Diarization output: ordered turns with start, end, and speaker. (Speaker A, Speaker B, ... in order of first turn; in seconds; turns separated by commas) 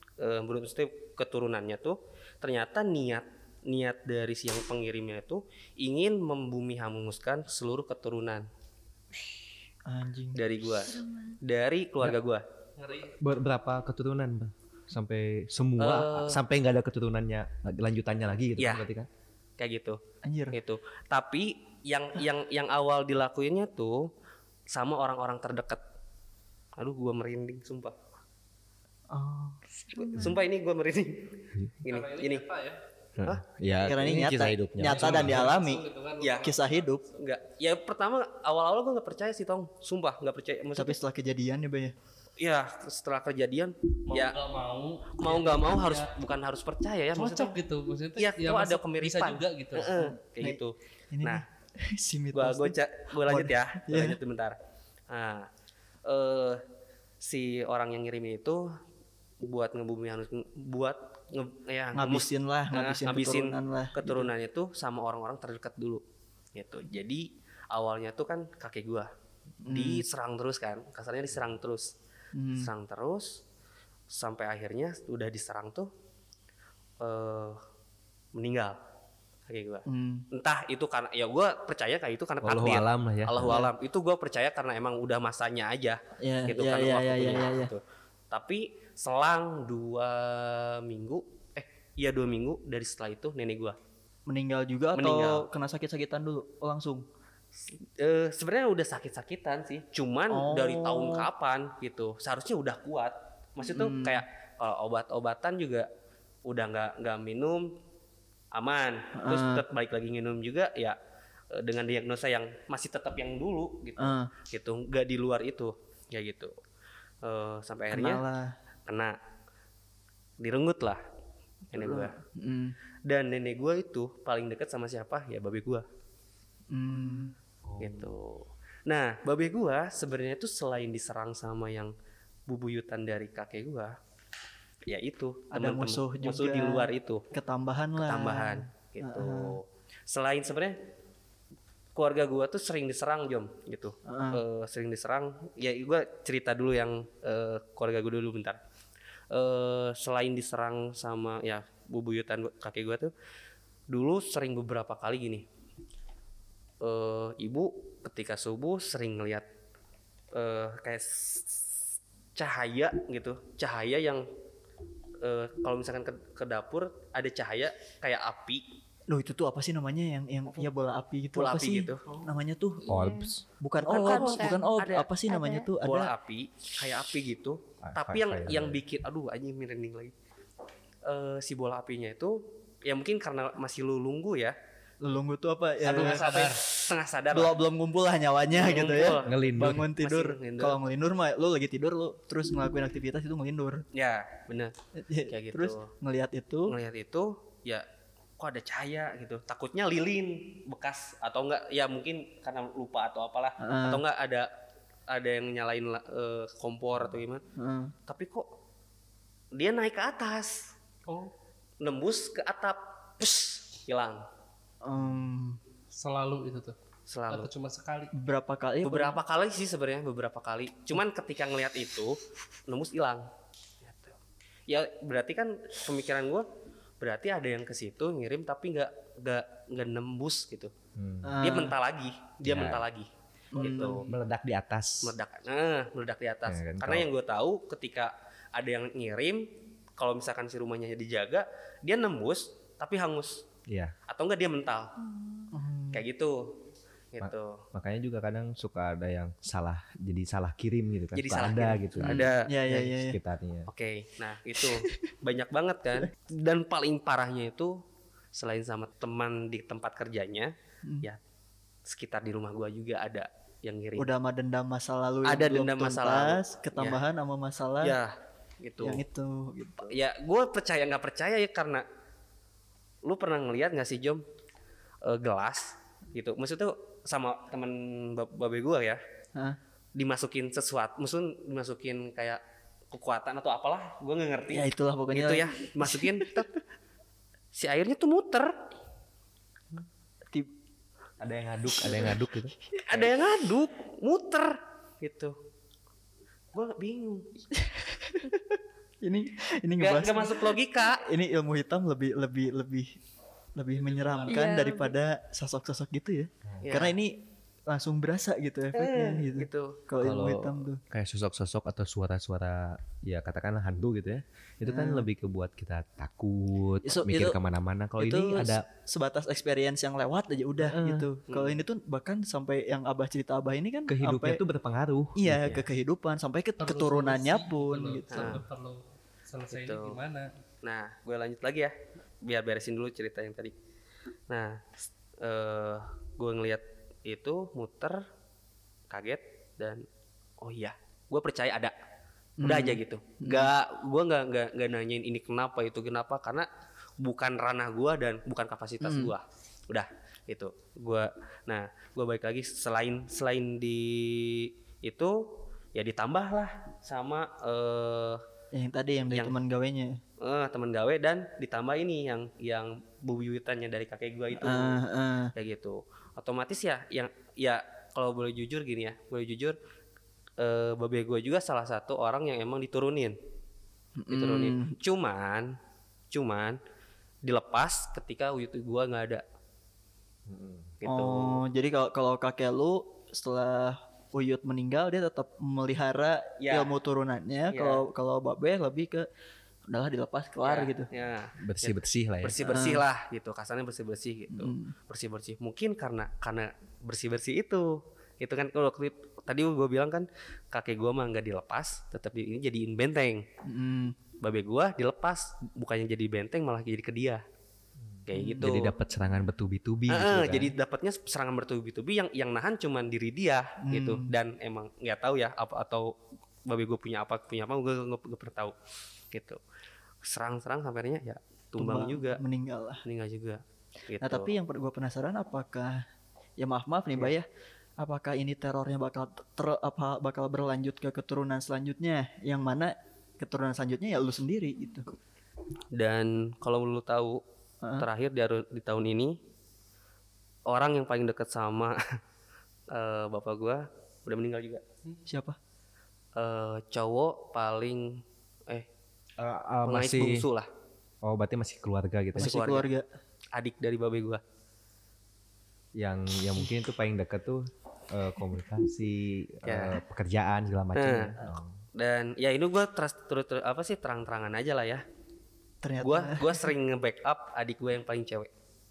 Speaker A: 0.2-8.5, Speaker B: 9.8-10.4, Speaker A: 10.3-12.4, Speaker C: 12.8-13.2, Speaker D: 13.2-19.1, Speaker A: 15.8-16.4, Speaker A: 18.6-18.9, Speaker A: 19.6-20.0, Speaker B: 20.2-20.6, Speaker A: 20.5-24.1, Speaker A: 24.7-25.8, Speaker A: 26.8-27.9, Speaker B: 29.1-29.6, Speaker A: 29.9-32.5, Speaker C: 31.9-32.8, Speaker D: 33.2-35.5, Speaker B: 33.8-35.8, Speaker C: 34.8-36.6, Speaker A: 36.2-36.5, Speaker B: 36.4-37.1, Speaker A: 37.1-41.0, Speaker B: 40.8-42.0, Speaker A: 42.4-44.4, Speaker C: 44.1-46.1, Speaker A: 45.2-47.6, Speaker C: 47.1-50.0, Speaker A: 48.2-51.4, Speaker B: 50.0-50.6, Speaker B: 51.1-54.2, Speaker A: 52.3-54.6, Speaker A: 55.1-55.5, Speaker A: 56.0-56.6, Speaker A: 57.2-58.7, Speaker A: 59.4-66.0, Speaker B: 61.9-64.3, Speaker A: 66.5-69.1, Speaker B: 69.7-70.0, Speaker A: 69.7-71.9, Speaker B: 72.3-72.7, Speaker A: 72.6-73.4, Speaker A: 74.1-75.9, Speaker A: 77.0-77.6, Speaker A: 78.4-78.8, Speaker A: 79.5-93.8, Speaker B: 79.9-80.3, Speaker D: 82.4-83.6, Speaker B: 83.4-83.7, Speaker B: 86.2-87.7, Speaker B: 94.3-97.0, Speaker A: 95.0-95.5, Speaker A: 97.8-105.9, Speaker B: 100.3-101.3, Speaker B: 103.7-104.2, Speaker A: 106.5-107.8, Speaker A: 108.5-111.0, Speaker B: 109.2-109.6, Speaker A: 111.5-116.5, Speaker B: 114.0-114.3, Speaker A: 117.2-118.2, Speaker B: 117.9-118.6, Speaker A: 118.9-119.2, Speaker A: 120.4-121.0, Speaker A: 121.7-122.1, Speaker B: 121.8-122.8, Speaker A: 123.1-125.9, Speaker B: 126.7-127.3, Speaker D: 127.7-128.1, Speaker A: 127.8-131.9, Speaker A: 132.5-133.9, Speaker A: 134.9-137.2, Speaker B: 135.5-139.6, Speaker A: 138.0-140.8, Speaker A: 141.9-148.6, Speaker B: 144.1-144.4, Speaker A: 149.3-153.1, Speaker A: 153.9-155.4, Speaker A: 156.8-159.5, Speaker A: 160.3-161.8, Speaker A: 162.4-164.2, Speaker A: 165.2-168.7, Speaker B: 169.1-176.1, Speaker A: 171.3-172.1, Speaker D: 172.9-173.4, Speaker A: 173.8-175.1, Speaker A: 175.8-180.1, Speaker D: 177.8-178.8, Speaker A: 181.1-184.6, Speaker B: 185.0-186.2, Speaker C: 185.8-186.6, Speaker A: 185.9-187.5, Speaker B: 187.3-193.8, Speaker A: 188.6-190.8, Speaker D: 189.2-189.9, Speaker A: 193.9-194.7, Speaker B: 195.0-196.8, Speaker A: 195.3-195.9, Speaker A: 196.7-197.9, Speaker A: 198.4-204.5, Speaker B: 203.6-204.0, Speaker A: 205.1-207.4, Speaker B: 207.6-207.9, Speaker A: 208.1-208.4, Speaker A: 209.5-210.7, Speaker C: 211.1-211.3, Speaker A: 211.8-214.3, Speaker B: 214.8-215.6, Speaker C: 215.9-216.8, Speaker A: 217.1-217.5, Speaker C: 217.3-218.1, Speaker B: 218.1-219.2, Speaker A: 218.8-223.3, Speaker A: 223.8-224.1, Speaker A: 224.7-226.5, Speaker A: 227.0-230.7, Speaker D: 230.9-231.4, Speaker B: 231.2-231.8, Speaker A: 231.4-234.1, Speaker D: 232.4-232.8, Speaker B: 233.5-234.1, Speaker D: 233.6-235.2, Speaker A: 235.0-243.5, Speaker D: 236.5-237.1, Speaker D: 243.7-243.9, Speaker A: 244.1-245.1, Speaker B: 245.5-246.1, Speaker A: 245.9-246.5, Speaker A: 247.1-247.7, Speaker D: 247.2-253.7, Speaker A: 251.2-252.9, Speaker B: 252.0-253.2, Speaker A: 253.7-257.8, Speaker B: 254.6-254.9, Speaker A: 258.3-261.2, Speaker A: 261.9-264.1, Speaker B: 264.0-268.0, Speaker A: 265.2-267.0, Speaker A: 267.8-269.0, Speaker B: 268.8-269.9, Speaker A: 269.9-271.9, Speaker A: 273.1-274.2, Speaker A: 275.0-279.0, Speaker A: 280.0-286.5, Speaker B: 284.5-286.5, Speaker A: 287.6-288.6, Speaker D: 291.2-292.5, Speaker B: 291.8-292.2, Speaker A: 292.9-295.4, Speaker A: 296.5-297.3, Speaker B: 297.5-303.0, Speaker A: 299.8-301.0, Speaker B: 303.6-310.8, Speaker C: 303.8-304.4, Speaker A: 304.3-304.6, Speaker A: 306.6-307.0, Speaker A: 308.7-309.8, Speaker D: 310.0-318.6, Speaker B: 314.6-315.1, Speaker B: 316.8-317.4, Speaker B: 318.0-324.4, Speaker D: 320.6-321.1, Speaker A: 321.3-321.6, Speaker D: 323.9-325.7, Speaker B: 325.2-328.4, Speaker C: 326.6-330.3, Speaker A: 328.1-328.4, Speaker A: 329.5-330.0, Speaker A: 330.6-333.6, Speaker A: 334.3-334.7, Speaker A: 335.2-338.0, Speaker A: 338.9-339.9, Speaker A: 340.4-341.7, Speaker B: 342.4-343.5, Speaker A: 342.4-346.5, Speaker A: 347.0-355.2, Speaker B: 348.8-349.1, Speaker A: 355.8-358.2, Speaker B: 358.5-360.0, Speaker A: 359.1-359.4, Speaker A: 360.2-364.8, Speaker B: 364.3-365.3, Speaker A: 365.4-369.6, Speaker A: 370.4-373.2, Speaker B: 374.0-374.7, Speaker A: 374.1-375.6, Speaker A: 376.1-376.6, Speaker A: 377.2-379.2, Speaker D: 380.3-380.7, Speaker A: 380.8-381.4, Speaker B: 380.9-389.1, Speaker A: 386.4-386.7, Speaker A: 387.5-387.8, Speaker B: 389.7-390.9, Speaker A: 390.4-403.2, Speaker D: 391.4-392.5, Speaker B: 392.5-392.9, Speaker B: 394.3-394.7, Speaker B: 403.4-404.0, Speaker A: 404.2-407.2, Speaker A: 408.1-408.8, Speaker B: 408.1-408.6, Speaker D: 408.4-410.5, Speaker A: 409.9-415.9, Speaker B: 413.6-414.1, Speaker A: 416.5-418.6, Speaker A: 419.1-419.4, Speaker A: 420.0-422.2, Speaker B: 421.6-422.8, Speaker A: 422.9-424.3, Speaker B: 424.0-425.9, Speaker B: 426.4-427.3, Speaker B: 427.8-434.9, Speaker A: 435.7-437.2, Speaker A: 437.8-439.2, Speaker A: 440.5-441.8, Speaker A: 442.7-444.6, Speaker B: 445.1-445.4, Speaker A: 446.2-448.7, Speaker D: 449.2-450.3, Speaker A: 449.6-450.5, Speaker D: 451.0-452.5, Speaker B: 452.2-452.9, Speaker A: 452.2-452.7, Speaker A: 453.4-454.2, Speaker D: 455.8-461.6, Speaker A: 459.4-459.8, Speaker A: 460.8-461.1, Speaker A: 461.8-464.8, Speaker B: 465.6-466.5, Speaker A: 465.8-468.3